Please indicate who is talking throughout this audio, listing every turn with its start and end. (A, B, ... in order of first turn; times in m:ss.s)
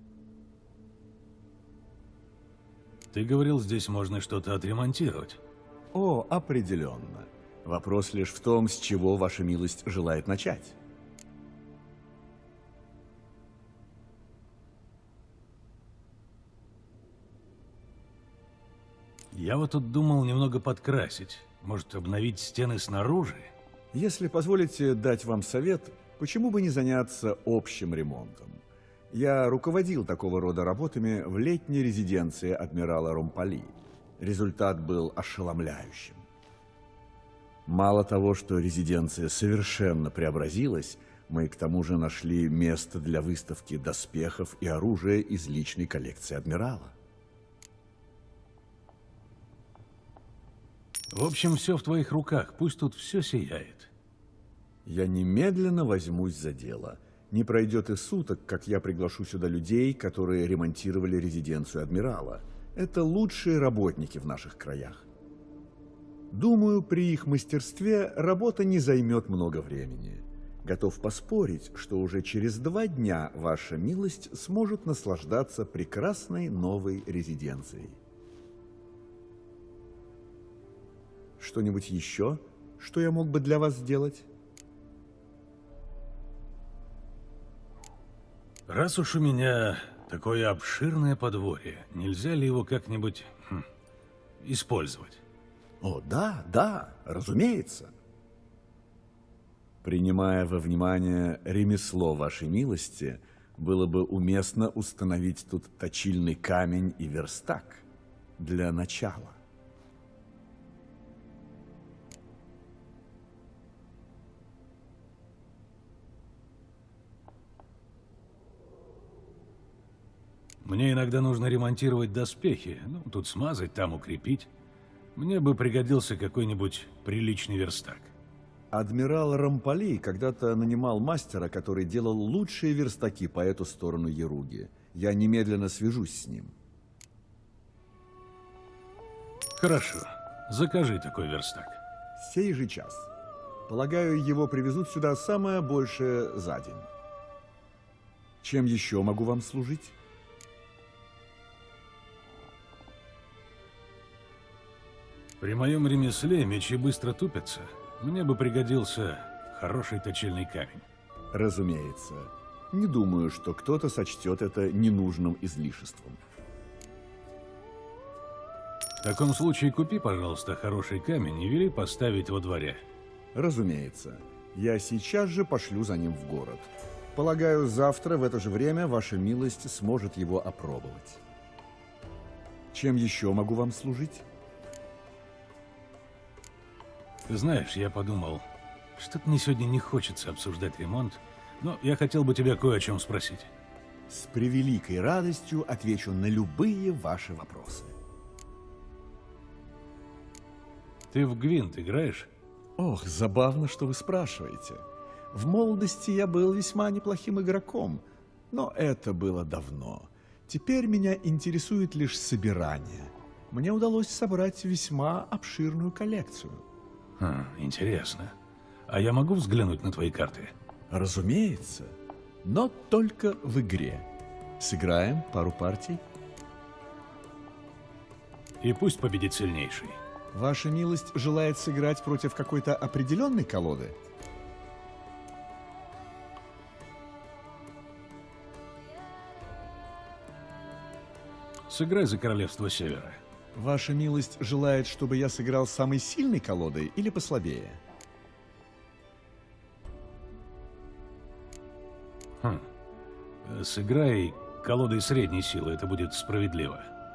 0:03.1-0:05.4 A
0:05.9-0:10.8 B
0:19.3-0:23.5 A
0:23.9-0:36.2 B
0:37.6-0:46.9 B
0:51.1-0:53.9 A
0:54.8-1:05.0 B
1:06.3-1:18.0 B
1:21.4-1:24.3 B
1:28.7-1:33.6 A
1:34.4-1:35.2 A
1:35.8-1:37.9 B
1:39.8-1:47.8 B
1:48.4-1:49.4 B
2:00.6-2:04.5 A
2:05.2-2:08.1 A
2:08.7-2:16.5 B
2:19.6-2:21.8 A
2:22.2-2:23.1 B
2:23.7-2:26.9 B
2:28.4-2:29.9 B
2:35.4-2:40.8 A
2:41.3-2:46.2 B
2:49.0-2:52.8 A
2:53.3-3:01.2 B
3:02.7-3:04.2 B
3:07.3-3:08.4 A
3:09.0-3:13.5 A
3:14.1-3:17.9 B
3:21.1-3:22.3 A
3:22.8-3:36.6 B
3:37.2-3:38.3 A
3:38.9-3:40.5 A
3:40.9-3:44.1 B
3:44.6-3:46.0 B
3:48.6-3:50.0 A
3:50.3-3:54.0 B
4:01.7-4:03.2 A
4:03.5-4:07.8 B
4:13.4-4:16.9 A